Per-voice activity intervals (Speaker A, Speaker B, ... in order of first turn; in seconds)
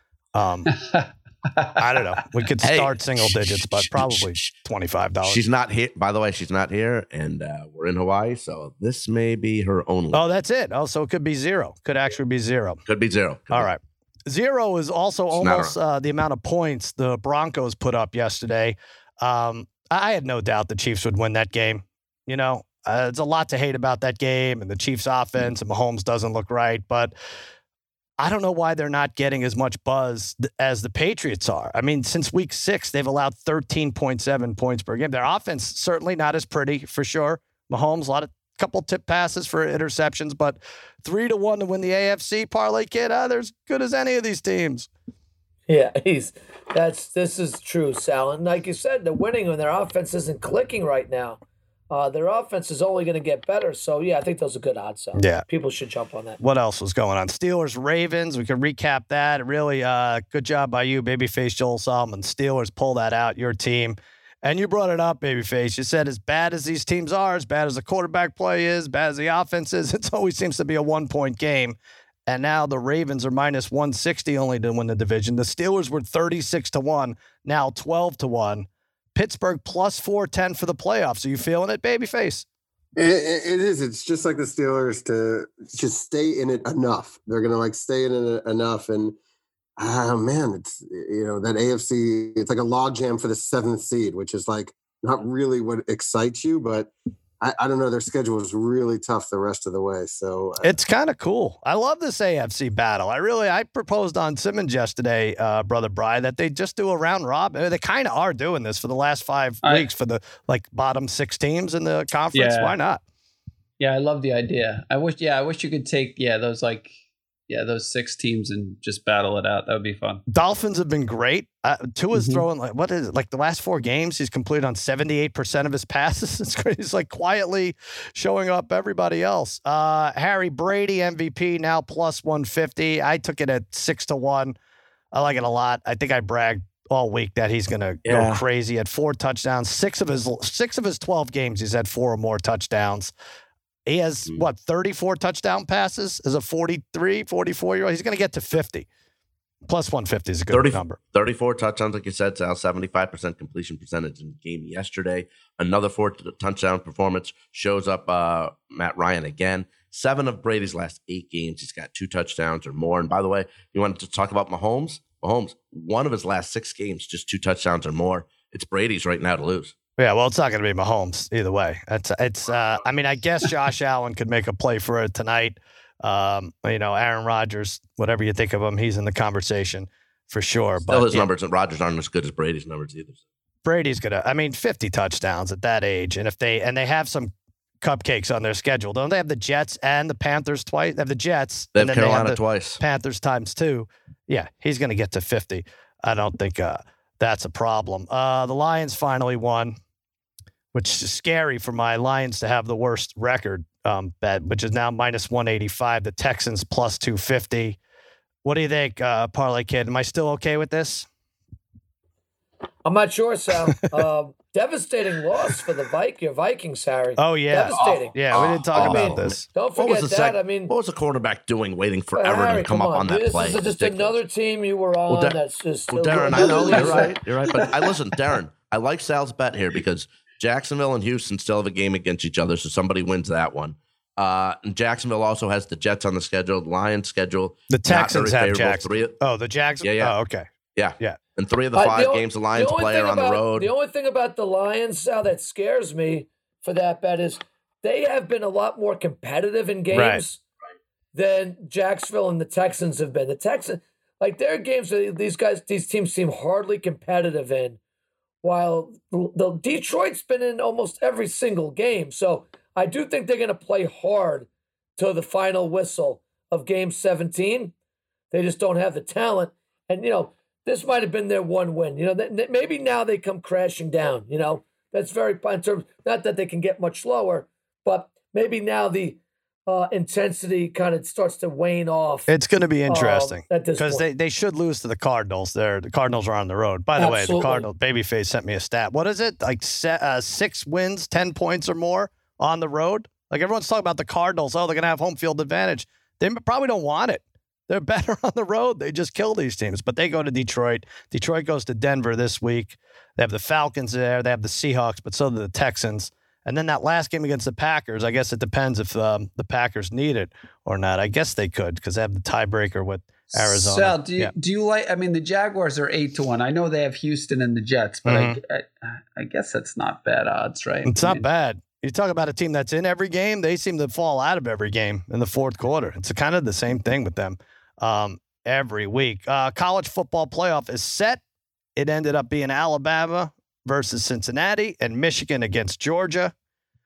Speaker A: 0.3-0.7, 1.8-5.4, 10.1-12.8, 13.5-27.1, 28.2-44.9, 55.1-55.4, 56.4-82.4, 100.6-113.0, 120.3-134.6, 135.1-143.1, 143.8-148.9, 149.7-151.0, 170.0-181.3, 183.6-199.8, 200.7-207.8, 208.4-211.1, 217.2-219.4, 226.1-227.5, 237.7-240.5, 249.9-250.2, 282.3-314.3, 318.1-318.4, 320.9-331.2, 331.8-336.3
Speaker B: 0.8-1.8, 112.3-112.7, 113.8-116.9, 117.5-120.2, 122.1-122.4, 313.3-321.2
Speaker C: 2.6-4.5, 5.2-10.2, 12.9-13.7, 15.3-15.7, 138.1-138.4, 150.5-169.7, 180.9-183.2, 191.7-192.8, 217.7-224.2, 225.1-225.4, 225.9-239.1, 239.8-240.1, 240.7-243.7
Speaker D: 45.7-56.4, 212.8-220.7, 222.1-227.5, 241.7-250.4, 251.1-257.8, 258.4-267.7, 268.3-282.3, 282.9-284.1, 287.0-287.6
Speaker E: 83.0-89.1, 89.8-100.7